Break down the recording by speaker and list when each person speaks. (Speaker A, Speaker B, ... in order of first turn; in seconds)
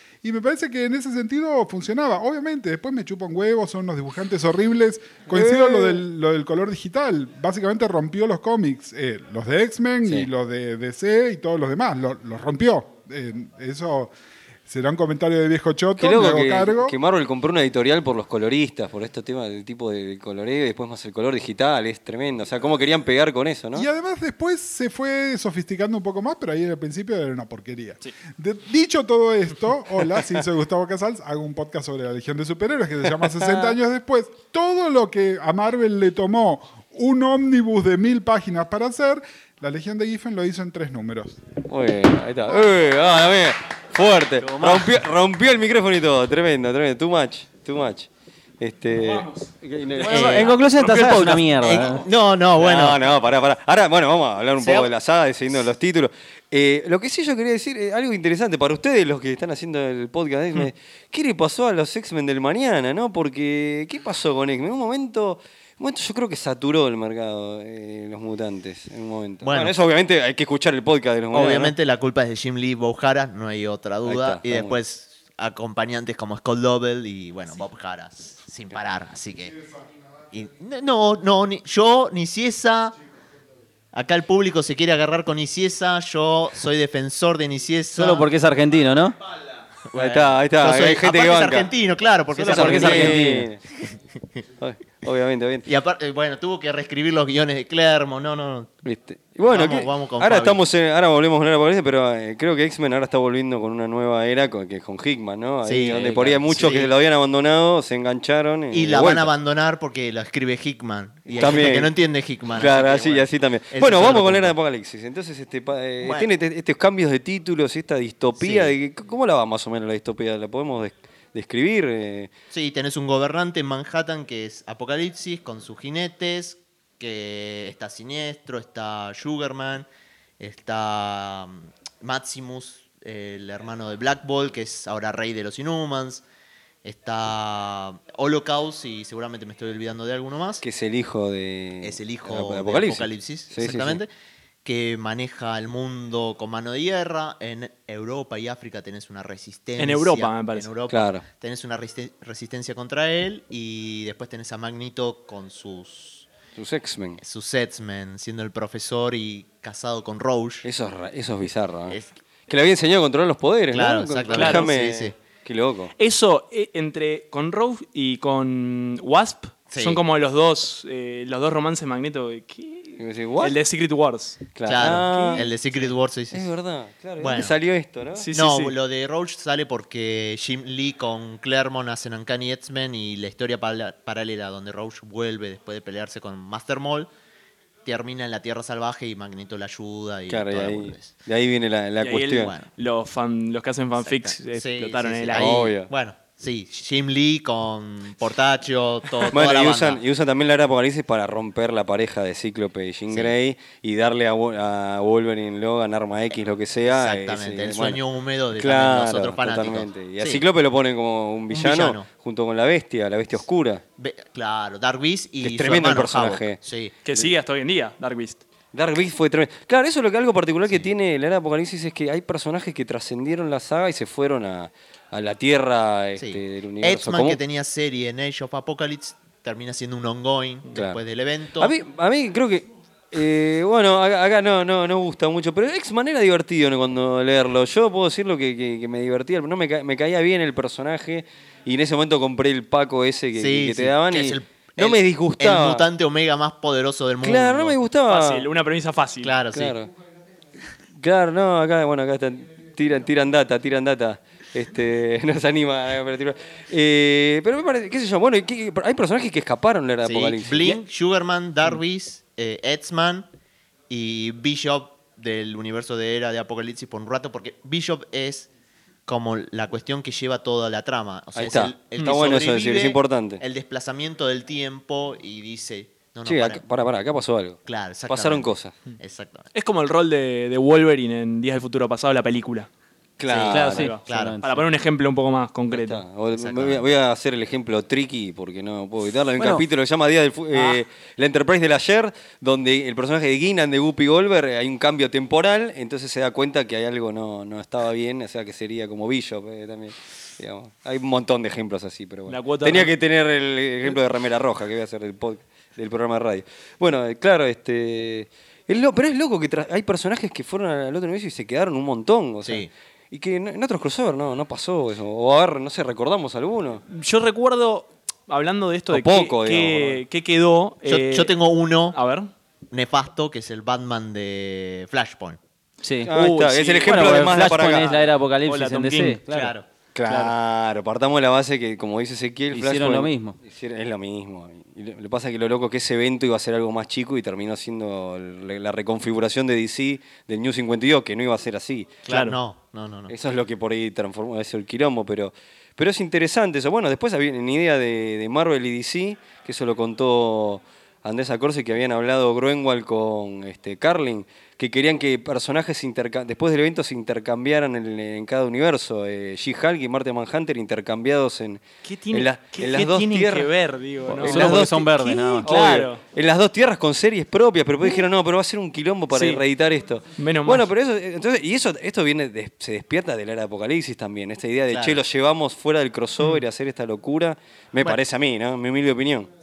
Speaker A: 0.2-14.1, 14.7-16.9, 23.8-41.4
Speaker B: 5.3-5.9, 10.0-10.3, 16.0-23.9, 33.2-33.7, 41.6-48.1, 48.6-51.0, 52.6-71.8, 74.0-74.8, 89.9-91.7, 92.4-93.6, 94.6-95.7, 98.8-109.3, 111.3-111.9, 112.5-122.3, 140.6-144.0, 150.9-151.2, 156.6-157.2, 160.6-165.9, 173.0-173.6, 174.6-175.5, 176.3-178.3, 190.3-192.5, 195.3-195.9, 199.2-208.0, 208.6-213.8, 215.4-216.6, 218.7-227.4, 230.8-231.0, 231.6-245.9, 247.2-248.5, 249.5-249.9, 251.0-260.8, 271.4-273.4, 276.3-278.8, 283.2-283.9, 285.7-316.8, 318.9-320.0, 326.1-328.0, 329.9-341.9, 343.1-363.5, 364.1-364.9, 365.4-379.3
Speaker C: 44.4-44.9, 50.0-52.0, 87.9-89.2, 92.4-93.5, 283.5-284.6, 325.8-326.1, 326.8-329.6, 332.5-333.4, 364.1-365.5
Speaker D: 49.0-49.4, 50.0-50.4, 51.0-51.3, 149.8-150.7, 164.3-164.7, 166.0-175.9, 178.2-178.8, 192.0-195.6, 217.1-218.4, 248.1-249.4, 279.5-282.7, 283.7-286.0, 302.3-302.9, 316.9-321.3, 321.9-322.3, 326.1-327.3, 328.5-329.2, 330.1-330.3, 342.1-342.4, 361.9-366.0, 369.1-369.4, 370.2-370.7
Speaker E: 50.0-53.0, 54.6-54.9, 69.4-69.7, 71.3-79.6, 80.3-83.0, 83.9-88.3, 89.9-94.4, 95.7-98.7, 99.5-100.6, 105.7-106.9, 108.7-114.5, 116.0-116.3, 118.4-118.7, 122.5-129.9, 130.4-136.2, 136.8-140.6, 141.8-144.1, 144.7-156.3, 157.2-160.7, 161.9-162.1, 163.7-165.2, 169.7-170.0, 174.7-176.5, 177.2-177.5, 178.3-187.1, 187.8-191.1, 192.3-192.7, 194.0-200.0, 206.9-210.4, 211.5-212.1, 214.0-216.9, 226.2-231.7, 243.3-247.8, 249.2-249.8, 260.0-263.3, 263.9-268.5, 269.1-276.6, 277.7-279.5, 283.3-284.4, 286.3-286.8, 312.4-312.7, 320.9-322.0, 322.7-325.4, 329.3-329.7, 342.1-343.1, 374.7-375.0